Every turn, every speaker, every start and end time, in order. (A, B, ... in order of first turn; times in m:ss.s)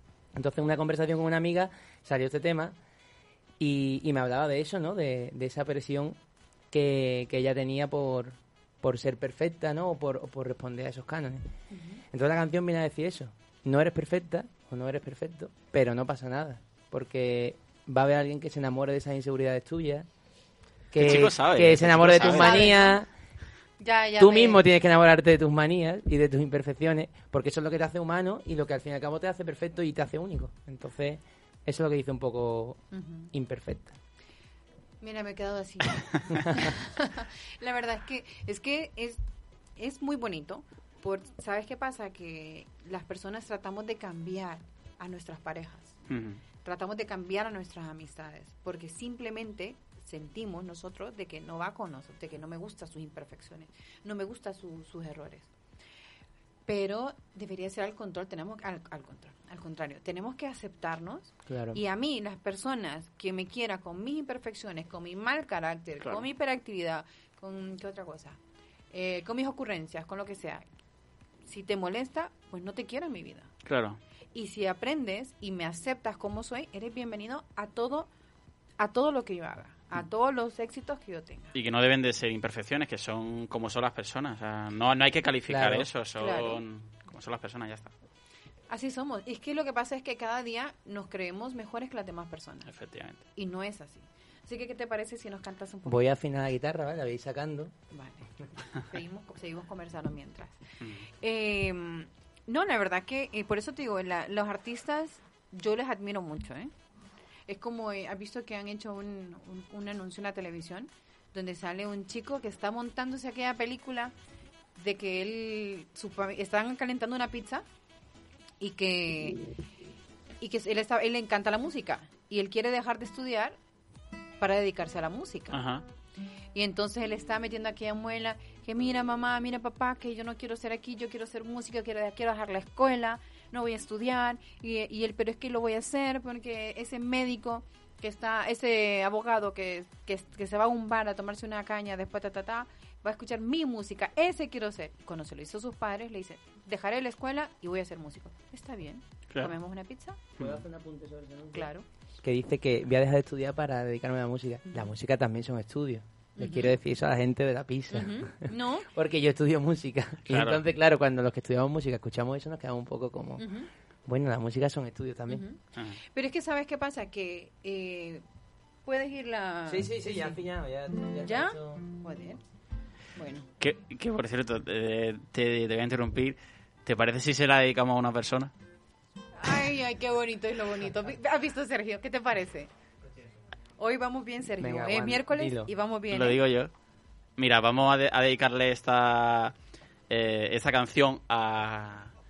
0:00.4-0:02.8 A
0:03.6-0:06.2 A
0:06.7-0:11.5 A
0:11.7-0:12.0 B
0:12.1-0:20.1 A
0:20.9-0:23.1 A
0:21.0-0:22.8 C
0:22.2-0:23.0 B
0:23.8-0:24.6 B
0:24.2-0:32.8 A
0:32.9-0:33.3 B
0:33.3-0:34.0 A
0:35.0-0:39.2 B
0:39.8-0:46.0 B
0:46.1-0:46.4 C
0:46.6-0:55.5 B
0:56.6-1:08.4 B
1:01.5-1:01.8 A
1:08.9-1:10.6 B
1:11.4-1:13.5 B
1:13.6-1:14.0 C
1:14.3-1:18.1 B
1:18.8-1:21.6 B
1:21.6-1:27.9 C
1:25.5-1:25.9 A
1:26.2-1:26.6 B
1:28.7-1:32.7 B
1:32.7-1:33.2 C
1:33.4-1:36.0 B
1:35.9-1:37.7 A
1:37.9-1:40.6 B
1:40.8-1:41.1 C
1:41.1-1:46.7 B
1:47.5-1:54.1 B
1:54.8-1:57.6 B
1:58.6-1:59.4 B
2:00.4-2:03.6 B
2:04.4-2:05.6 B
2:05.5-2:05.8 C
2:06.5-2:30.2 B
2:30.4-2:31.7 A
2:31.5-2:31.8 B
2:32.2-2:43.5 A
2:36.4-2:36.8 B
2:37.9-2:38.9 B
2:40.3-2:40.6 C
2:43.4-2:43.7 B
2:44.1-2:45.4 A
2:45.3-2:48.2 B
2:48.8-2:50.4 B
2:49.6-2:51.8 A
2:51.2-2:52.4 B
2:53.2-2:53.5 B
2:53.6-2:58.5 C
2:59.4-3:02.7 B
3:03.8-3:06.4 B
3:04.6-3:05.7 A
3:06.1-3:06.7 C
3:07.4-3:09.6 C
3:10.1-3:12.1 C